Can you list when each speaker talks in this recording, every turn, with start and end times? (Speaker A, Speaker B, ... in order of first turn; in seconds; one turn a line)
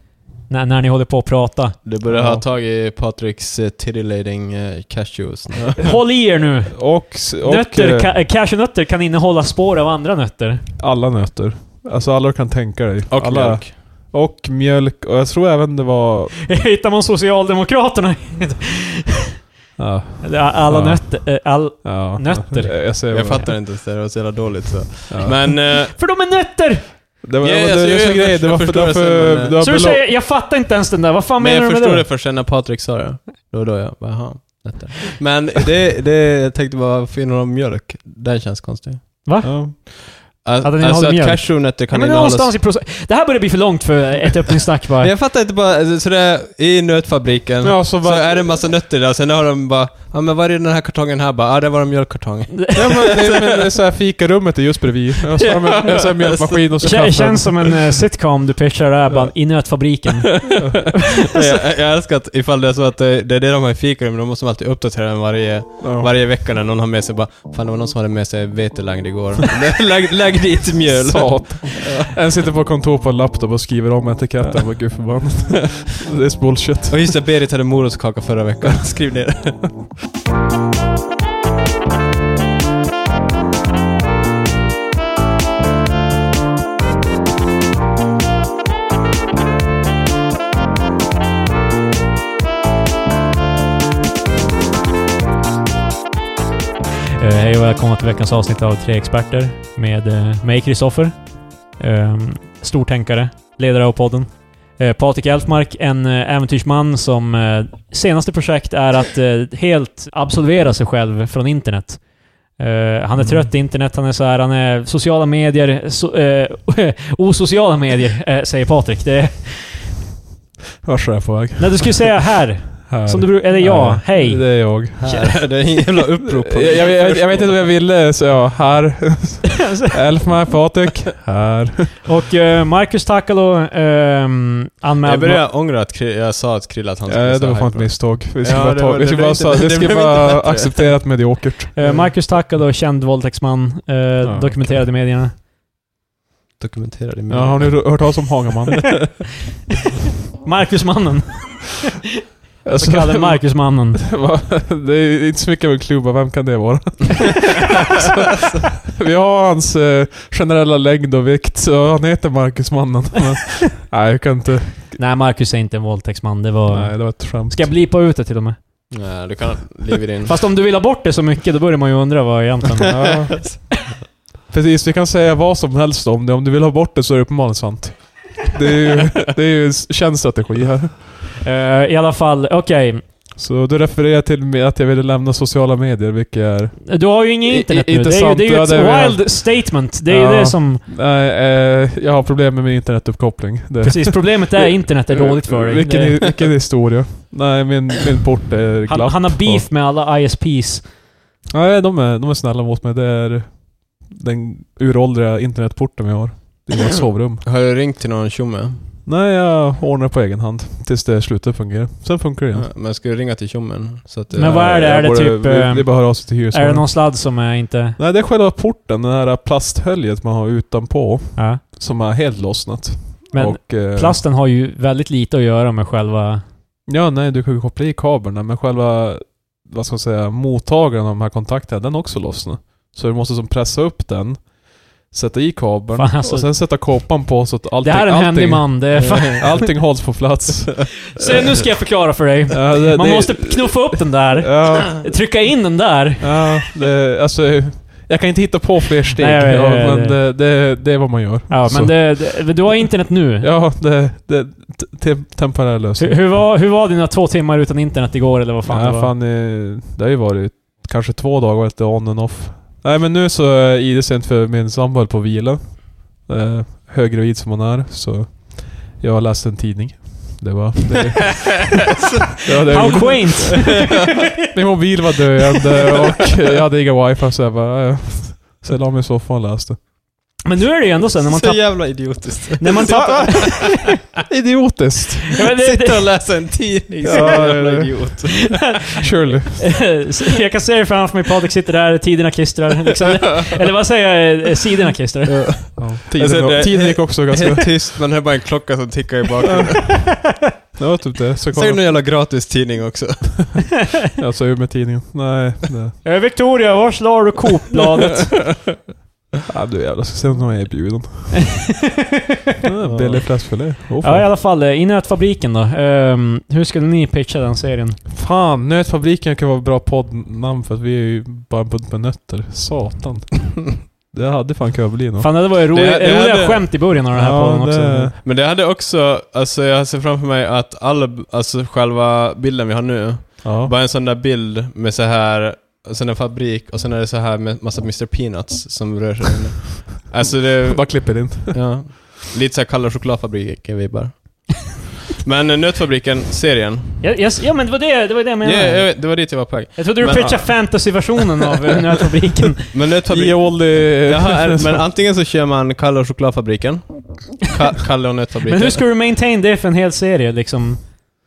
Speaker A: 0.5-1.8
Speaker B: 1.9-5.9
Speaker C: 2.1-2.5
Speaker A: 5.8-10.7
Speaker C: 6.8-8.1
Speaker C: 10.8-16.4
Speaker B: 13.1-13.8
Speaker A: 16.5-19.2
Speaker C: 19.8-23.5
Speaker A: 20.2-23.1
Speaker B: 23.1-26.0
Speaker C: 25.1-25.5
Speaker A: 25.7-26.9
Speaker C: 27.2-30.1
Speaker B: 27.4-29.6
Speaker A: 29.6-32.1
Speaker B: 31.4-39.3
Speaker A: 39.2-40.1
Speaker C: 39.4-39.8
Speaker B: 40.2-42.6
Speaker A: 40.6-45.1
Speaker B: 45.0-53.7
Speaker C: 47.6-48.5
Speaker A: 52.5-52.8
Speaker C: 52.7-58.0
Speaker B: 55.2-56.7
Speaker A: 56.8-60.6
Speaker B: 60.3-60.6
Speaker C: 60.6-60.9
Speaker A: 61.2-61.6
Speaker B: 61.3-72.1
Speaker C: 65.8-66.1
Speaker C: 70.9-77.2
Speaker B: 76.9-79.9
Speaker A: 97.2-101.2
Speaker A: 101.8-112.0
Speaker A: 112.6-119.9
Speaker C: 113.2-113.5
Speaker C: 120.8-122.2
Speaker A: 121.6-125.3
Speaker C: 122.9-125.2
Speaker B: 125.0-127.7
Speaker C: 126.2-132.0
Speaker A: 129.6-129.9
Speaker A: 132.0-135.5
Speaker B: 135.0-141.0
Speaker C: 137.1-141.8
Speaker A: 141.7-145.3
Speaker B: 141.8-142.1
Speaker C: 144.2-144.7
Speaker B: 146.6-148.2
Speaker C: 147.3-149.1
Speaker A: 150.4-152.0
Speaker C: 152.6-165.0
Speaker A: 152.7-154.0
Speaker A: 165.0-168.6
Speaker C: 166.7-167.7
Speaker B: 168.9-170.4
Speaker A: 170.2-173.2
Speaker C: 172.9-173.8
Speaker B: 173.3-173.6
Speaker C: 174.5-181.2
Speaker A: 181.4-183.0
Speaker C: 183.4-199.7
Speaker A: 186.9-190.8
Speaker A: 193.8-196.3
Speaker A: 198.9-200.9
Speaker C: 201.5-207.4
Speaker B: 207.4-208.9
Speaker C: 209.1-212.7
Speaker B: 212.5-214.7
Speaker A: 214.3-218.0
Speaker C: 214.4-217.1
Speaker C: 218.0-224.2
Speaker A: 221.4-221.6
Speaker A: 223.3-226.4
Speaker C: 226.9-241.5
Speaker A: 236.0-236.9
Speaker A: 237.8-239.7
Speaker B: 239.0-239.7
Speaker A: 241.2-246.6
Speaker C: 242.5-245.1
Speaker C: 246.2-252.7
Speaker A: 249.2-250.2
Speaker A: 251.5-253.5
Speaker C: 253.4-256.4
Speaker A: 256.0-259.1
Speaker C: 258.7-271.9
Speaker C: 272.4-273.9
Speaker B: 272.5-273.9
Speaker A: 272.7-274.0
Speaker C: 274.4-279.8
Speaker A: 280.4-283.8
Speaker B: 281.2-284.1
Speaker C: 282.9-283.5
Speaker C: 284.2-285.4
Speaker A: 285.3-286.2
Speaker B: 285.4-289.0
Speaker C: 287.0-288.4
Speaker A: 287.1-287.5
Speaker C: 289.0-289.9
Speaker A: 289.5-295.7
Speaker B: 295.3-300.0
Speaker C: 295.8-297.7
Speaker C: 299.4-299.9
Speaker C: 300.8-301.8
Speaker B: 301.5-303.8
Speaker C: 304.2-306.0
Speaker A: 306.0-308.5
Speaker C: 309.5-311.7
Speaker C: 312.6-314.3
Speaker B: 312.8-313.5
Speaker A: 314.0-318.0
Speaker C: 318.1-325.3
Speaker A: 325.2-328.1
Speaker B: 325.7-326.8
Speaker C: 327.1-328.2
Speaker B: 328.2-347.0
Speaker C: 333.4-333.7
Speaker C: 340.6-341.8
Speaker A: 347.0-352.7
Speaker B: 348.4-351.0
Speaker B: 352.7-358.9
Speaker C: 353.1-354.9
Speaker A: 358.4-360.9